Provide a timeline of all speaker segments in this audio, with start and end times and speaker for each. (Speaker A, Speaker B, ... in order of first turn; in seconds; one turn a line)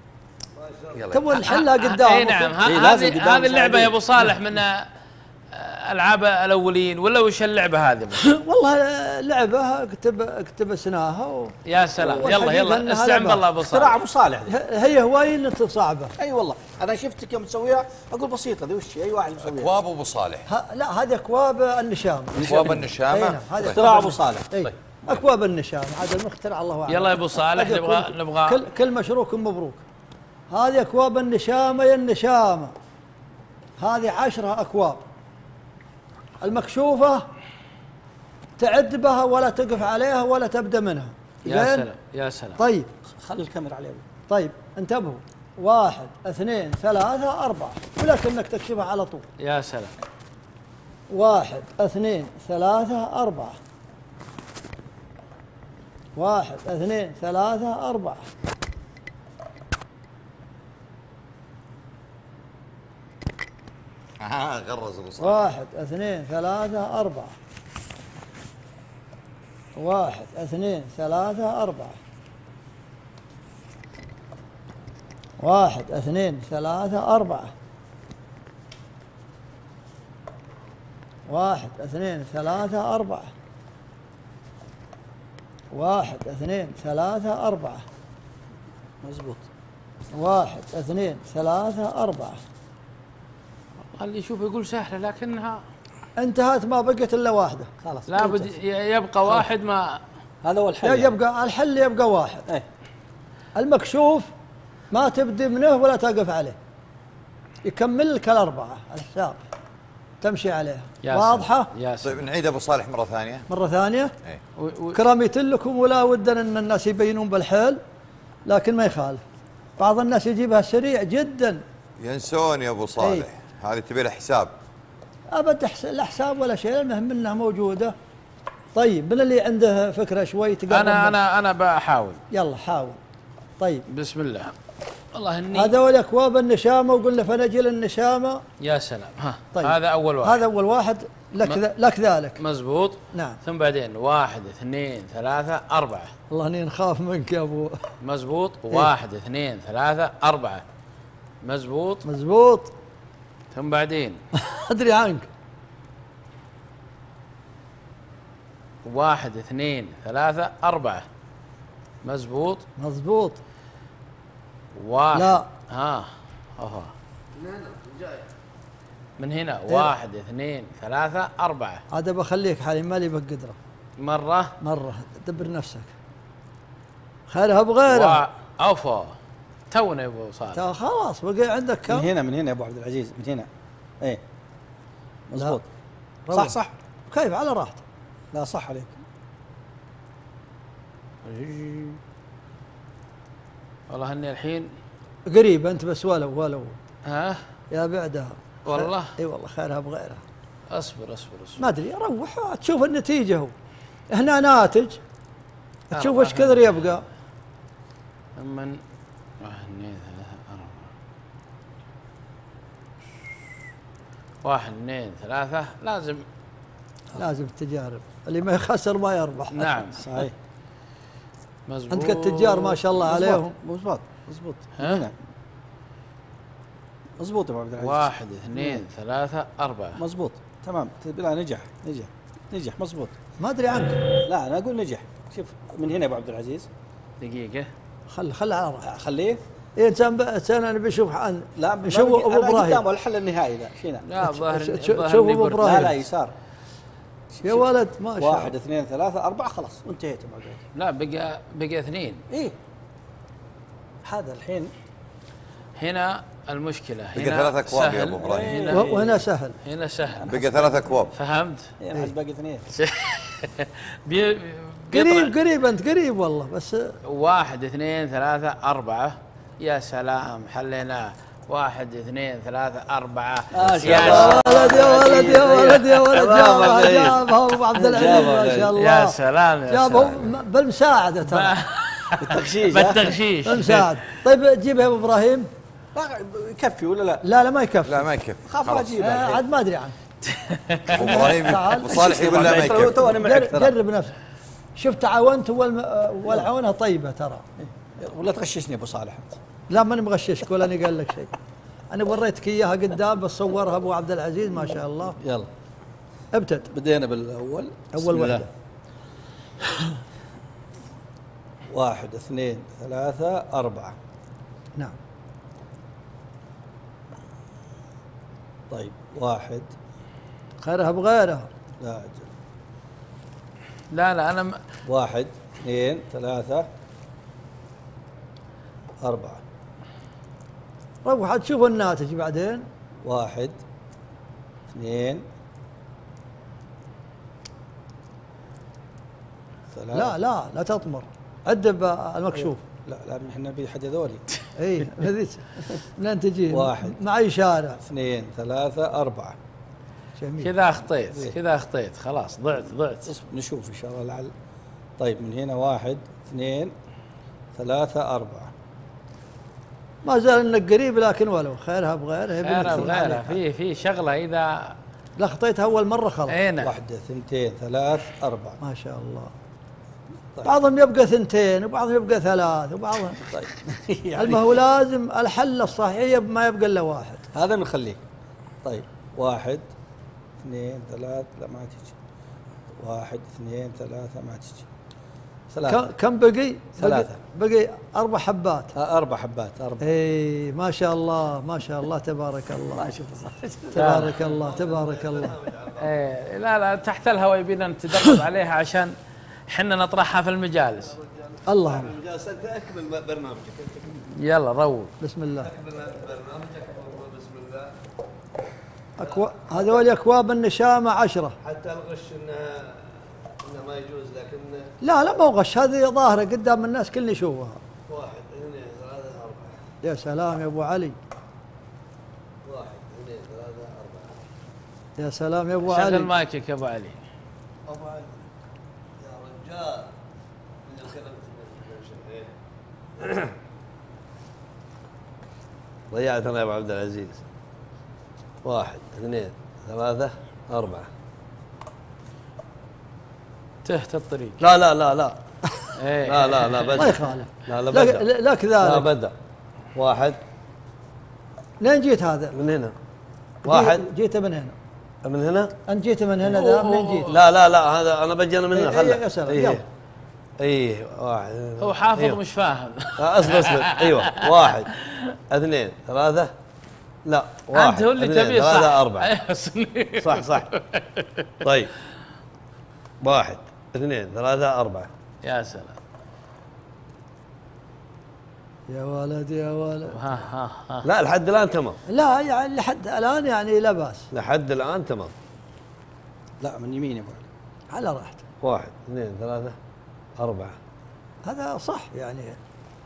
Speaker A: 0.6-1.1
Speaker B: 0.9-1.5
Speaker C: 1.1-2.6
Speaker D: 1.3-4.9
Speaker E: 2.6-4.1
Speaker D: 5.5-8.3
Speaker C: 8.2-13.5
Speaker D: 11.7-14.0
Speaker E: 12.0-12.4
Speaker E: 13.6-14.5
Speaker C: 14.5-16.1
Speaker E: 16.2-19.7
Speaker B: 19.4-20.5
Speaker C: 20.5-29.8
Speaker E: 22.4-22.9
Speaker B: 22.4-23.8
Speaker E: 23.7-24.5
Speaker B: 24.6-25.2
Speaker D: 26.9-28.7
Speaker C: 30.5-32.8
Speaker C: 33.8-35.0
Speaker C: 36.4-37.3
Speaker C: 38.6-41.9
Speaker D: 41.5-42.6
Speaker C: 42.6-42.9
Speaker E: 43.1-44.0
Speaker C: 44.3-49.2
Speaker D: 49.4-50.0
Speaker C: 51.1-53.6
Speaker C: 56.2-58.3
Speaker B: 64.2-65.5
Speaker C: 65.2-67.3
Speaker C: 69.8-72.0
Speaker C: 75.4-77.5
Speaker C: 81.3-83.3
Speaker C: 85.7-87.8
Speaker E: 89.0-89.5
Speaker C: 90.1-92.4
Speaker D: 94.0-95.6
Speaker C: 96.2-97.7
Speaker E: 97.8-98.5
Speaker D: 98.1-100.0
Speaker E: 100.4-101.2
Speaker C: 100.8-102.5
Speaker C: 103.5-104.3
Speaker C: 104.9-106.6
Speaker C: 107.6-109.4
Speaker C: 110.2-111.7
Speaker D: 111.0-112.2
Speaker B: 112.0-113.5
Speaker C: 113.5-114.1
Speaker D: 114.6-115.0
Speaker C: 114.9-117.8
Speaker C: 118.5-119.2
Speaker C: 119.8-121.6
Speaker B: 122.0-124.5
Speaker C: 123.0-123.3
Speaker C: 125.3-128.0
Speaker C: 128.7-131.2
Speaker D: 130.7-132.2
Speaker C: 132.3-133.0
Speaker C: 133.6-133.9
Speaker D: 133.9-134.5
Speaker D: 135.1-135.8
Speaker C: 135.6-138.4
Speaker D: 138.6-140.4
Speaker C: 139.5-142.4
Speaker D: 142.4-146.1
Speaker C: 143.1-143.4
Speaker C: 146.3-147.8
Speaker D: 148.0-150.6
Speaker D: 151.4-152.1
Speaker C: 152.1-152.7
Speaker D: 153.5-154.2
Speaker C: 154.4-155.3
Speaker D: 158.8-161.1
Speaker D: 162.0-162.7
Speaker C: 162.8-163.4
Speaker D: 164.7-166.9
Speaker C: 165.1-165.5
Speaker A: 167.3-168.3
Speaker D: 169.2-171.8
Speaker C: 171.9-173.6
Speaker D: 174.0-174.6
Speaker C: 174.6-175.9
Speaker C: 177.3-178.2
Speaker D: 177.9-179.2
Speaker D: 179.7-180.7
Speaker C: 180.6-182.1
Speaker E: 181.9-183.5
Speaker E: 185.3-185.7
Speaker C: 186.3-186.6
Speaker E: 186.3-186.7
Speaker C: 187.1-187.8
Speaker E: 188.3-189.0
Speaker D: 191.2-192.0
Speaker D: 193.9-194.7
Speaker C: 195.3-196.8
Speaker D: 197.1-197.4
Speaker C: 197.7-200.2
Speaker D: 198.7-199.2
Speaker D: 200.7-201.7
Speaker C: 201.6-203.5
Speaker C: 204.1-205.0
Speaker C: 205.9-207.0
Speaker D: 205.9-206.8
Speaker D: 208.4-208.8
Speaker D: 209.4-210.9
Speaker D: 214.4-216.2
Speaker C: 217.2-219.8
Speaker D: 219.5-220.2
Speaker E: 220.0-220.3
Speaker D: 221.7-222.8
Speaker C: 221.9-223.6
Speaker E: 223.0-225.1
Speaker D: 224.8-225.0
Speaker E: 227.2-228.8
Speaker D: 227.8-230.0
Speaker E: 230.0-233.1
Speaker C: 233.4-234.0
Speaker E: 234.2-236.7
Speaker D: 237.2-237.7
Speaker C: 238.1-238.9
Speaker E: 238.8-239.4
Speaker C: 239.8-242.8
Speaker E: 241.6-244.1
Speaker D: 244.0-245.9
Speaker C: 244.2-246.0
Speaker E: 245.6-246.3
Speaker E: 247.3-250.6
Speaker C: 247.4-248.5
Speaker D: 250.8-252.2
Speaker E: 254.0-254.7
Speaker D: 255.8-259.0
Speaker B: 257.1-258.6
Speaker E: 258.2-259.2
Speaker C: 258.7-259.6
Speaker D: 259.6-260.4
Speaker B: 260.3-261.1
Speaker D: 261.1-261.7
Speaker E: 261.8-262.7
Speaker D: 262.7-265.3
Speaker C: 264.9-267.0
Speaker D: 267.1-274.8
Speaker E: 273.5-277.2
Speaker B: 273.7-274.4
Speaker C: 274.1-279.2
Speaker E: 277.8-278.8
Speaker D: 278.7-280.3
Speaker C: 279.7-281.6
Speaker D: 281.2-283.9
Speaker E: 282.2-283.2
Speaker C: 283.4-285.5
Speaker E: 285.9-287.2
Speaker C: 287.2-288.1
Speaker B: 287.8-289.0
Speaker E: 288.5-289.4
Speaker C: 289.0-289.9
Speaker D: 290.3-291.0
Speaker B: 290.9-293.1
Speaker C: 290.9-294.1
Speaker E: 291.9-293.8
Speaker C: 294.8-297.5
Speaker E: 297.6-299.4
Speaker C: 299.7-301.3
Speaker C: 301.9-305.2
Speaker E: 305.2-305.5
Speaker C: 306.3-306.7
Speaker E: 306.7-308.5
Speaker C: 307.9-308.5
Speaker E: 311.7-314.0
Speaker E: 318.7-319.7
Speaker C: 320.6-321.5
Speaker E: 321.8-322.3
Speaker D: 323.9-324.6
Speaker E: 324.9-326.7
Speaker E: 329.0-329.4
Speaker C: 331.1-332.7
Speaker E: 333.0-333.6
Speaker E: 334.7-335.2
Speaker E: 339.7-340.2
Speaker C: 339.9-342.6
Speaker E: 342.3-344.2
Speaker C: 344.6-347.8
Speaker E: 346.5-347.0
Speaker E: 347.8-349.4
Speaker C: 350.2-350.5
Speaker D: 350.4-353.1
Speaker E: 353.1-354.3
Speaker E: 355.0-356.7
Speaker E: 357.6-358.5
Speaker C: 360.0-363.4
Speaker D: 362.4-364.7
Speaker C: 365.2-366.4
Speaker D: 366.3-366.7
Speaker E: 366.6-368.6
Speaker C: 368.6-369.3
Speaker C: 370.4-373.3
Speaker E: 373.2-374.6
Speaker C: 374.2-377.2
Speaker E: 377.3-378.0
Speaker E: 378.6-379.7
Speaker E: 380.4-381.9
Speaker E: 382.8-384.6
Speaker E: 385.5-385.9
Speaker C: 385.7-388.7
Speaker E: 386.8-387.2
Speaker E: 388.7-389.8
Speaker C: 389.8-392.9
Speaker E: 392.7-394.0
Speaker C: 393.7-395.3
Speaker D: 393.8-394.2
Speaker A: 394.2-395.9
Speaker D: 395.8-398.9
Speaker D: 399.5-400.9
Speaker A: 400.9-404.0
Speaker C: 401.5-401.9
Speaker D: 404.1-404.9
Speaker C: 405.0-405.5
Speaker A: 405.4-407.7
Speaker C: 409.0-411.4
Speaker A: 409.0-409.8
Speaker A: 411.4-414.7
Speaker C: 414.8-417.6
Speaker A: 417.9-419.6
Speaker C: 419.8-421.0
Speaker A: 422.4-424.2
Speaker C: 425.0-426.1
Speaker D: 425.6-427.0
Speaker A: 427.7-428.3
Speaker A: 429.0-429.9
Speaker A: 430.6-432.3
Speaker F: 435.9-437.2
Speaker F: 438.4-440.9
Speaker D: 443.6-444.4
Speaker F: 444.4-445.2
Speaker D: 445.8-446.9
Speaker F: 446.1-448.0
Speaker C: 446.8-448.9
Speaker F: 448.6-449.1
Speaker F: 449.8-450.2
Speaker C: 451.6-452.4
Speaker F: 452.3-452.8
Speaker F: 453.4-453.9
Speaker C: 453.4-454.6
Speaker F: 455.0-455.6
Speaker C: 455.7-457.1
Speaker D: 456.3-457.2
Speaker F: 457.1-459.6
Speaker C: 458.5-459.6
Speaker F: 460.4-462.2
Speaker D: 461.6-464.1
Speaker F: 463.0-464.7
Speaker D: 464.7-465.1
Speaker F: 465.3-466.3
Speaker F: 467.1-469.1
Speaker D: 467.5-471.3
Speaker F: 470.0-470.5
Speaker F: 471.4-471.7
Speaker F: 473.0-474.9
Speaker D: 475.2-475.8
Speaker C: 478.7-480.0
Speaker D: 479.9-480.9
Speaker F: 480.8-481.8
Speaker C: 481.9-484.1
Speaker F: 484.1-485.1
Speaker E: 486.4-487.2
Speaker C: 487.7-488.2
Speaker F: 488.4-489.6
Speaker F: 490.2-490.6
Speaker C: 491.2-492.4